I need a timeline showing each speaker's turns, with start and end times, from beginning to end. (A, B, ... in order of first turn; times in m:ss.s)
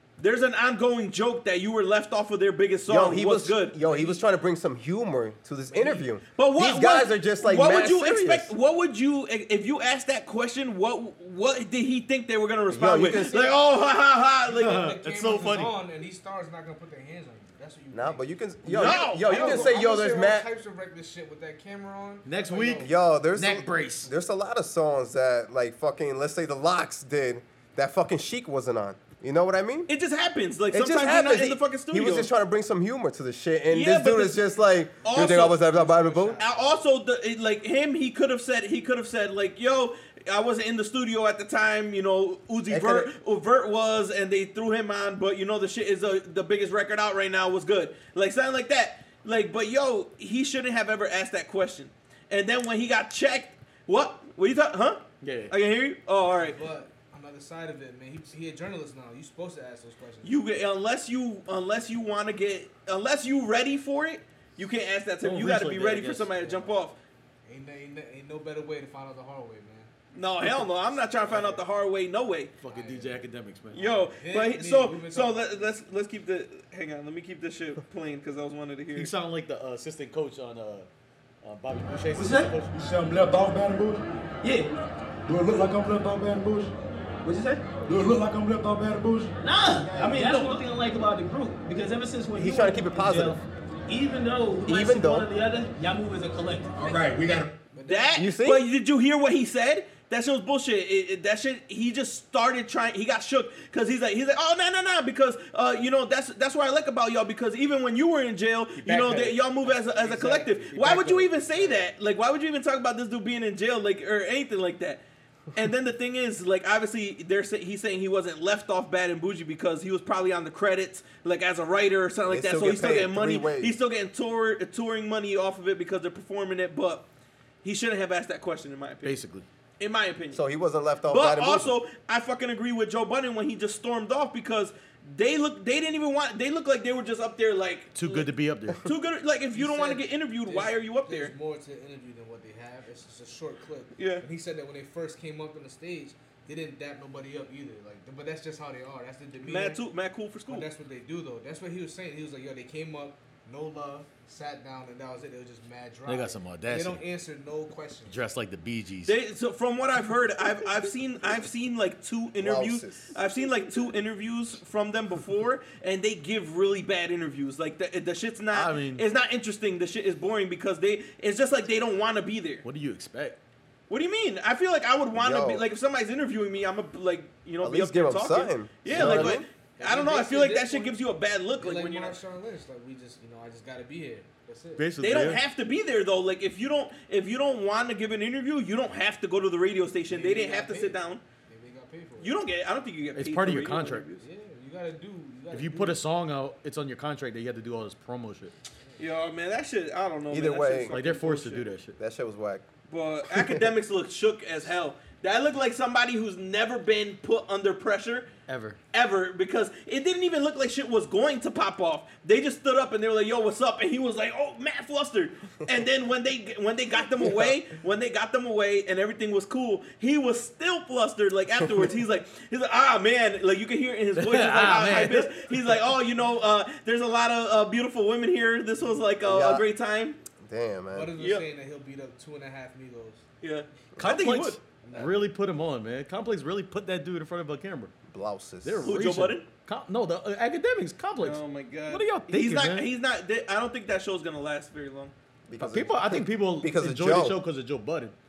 0:00.2-0:03.8 A
0:02.9-0:08.5 B
0:03.8-0:04.2 C
0:05.7-0:06.1 C
0:06.4-0:14.9 A
0:12.7-0:13.6 B
0:14.5-0:22.9 C
0:14.6-0:15.8 D
0:17.9-0:20.5 B
0:18.7-0:19.7 A
0:22.2-0:24.1 D
0:22.8-0:29.9 B
0:29.9-0:32.3 A
0:30.7-0:36.4 B
0:33.7-0:34.4 A
0:35.0-0:36.8 C
0:35.0-0:35.6 A
0:36.4-0:56.6 A
0:42.7-0:43.1 B
0:55.2-0:55.5 D
0:56.4-1:00.4 C
1:00.2-1:07.0 A
1:05.2-1:06.4 D
1:06.4-1:06.7 C
1:07.4-1:09.9 C
1:10.1-1:12.5 A
1:10.6-1:11.6 C
1:12.6-1:13.8 D
1:12.7-1:15.7 C
1:13.7-1:19.1 A
1:18.9-1:20.9 D
1:21.4-1:22.7 D
1:22.1-1:22.5 E
1:22.7-1:24.0 F
1:24.4-1:24.7 E
1:25.3-1:26.7 F
1:27.2-1:27.6 E
1:27.8-1:29.4 F
1:29.4-1:37.5 E
1:29.9-1:30.2 F
1:32.3-1:33.4 B
1:34.6-1:35.3 B
1:36.8-1:37.1 C
1:37.7-1:38.3 C
1:37.8-1:55.0 A
1:38.1-1:38.6 B
1:48.8-1:51.8 D
1:50.2-1:51.0 C
1:51.5-1:51.8 C
1:55.5-2:07.1 A
2:02.3-2:03.8 B
2:07.6-2:09.2 A
2:09.0-2:09.4 D
2:09.8-2:10.4 A
2:10.3-2:11.8 B
2:11.0-2:18.3 A
2:17.9-2:18.9 D
2:18.8-2:21.3 A
2:19.5-2:29.8 C
2:24.0-2:24.2 A
2:29.4-2:30.7 A
2:30.5-2:38.2 C
2:36.0-2:37.0 D
2:38.1-2:39.1 D
2:39.0-2:52.6 A
2:42.4-2:43.2 B
2:48.5-2:49.0 D
2:52.6-2:53.4 D
2:53.9-3:02.2 A
2:55.1-2:55.6 B
2:57.6-2:59.4 B
2:58.9-2:59.3 D
2:58.9-3:01.0 C
3:01.6-3:04.9 C
3:04.8-3:05.4 D
3:05.0-3:11.2 A
3:10.1-3:12.4 C
3:12.2-3:14.2 A
3:13.1-3:14.1 D
3:14.2-3:16.0 C
3:15.5-3:18.5 D
3:19.0-3:21.7 A
3:20.3-3:20.9 B
3:20.9-3:22.0 D
3:22.0-3:22.6 B
3:22.9-3:28.3 A
3:28.5-3:28.8 D
3:28.9-3:50.2 A
3:44.2-3:45.5 D
3:49.2-3:49.6 B
3:50.4-3:51.1 B
3:50.9-3:53.2 C
3:51.2-3:51.4 A
3:53.4-3:54.6 A
3:54.0-3:57.9 D
3:54.8-3:55.3 C
3:58.1-3:59.0 B
3:58.6-4:02.9 D
3:58.8-3:59.4 A
4:01.2-4:05.1 A
4:05.5-4:07.4 B
4:05.6-4:08.1 D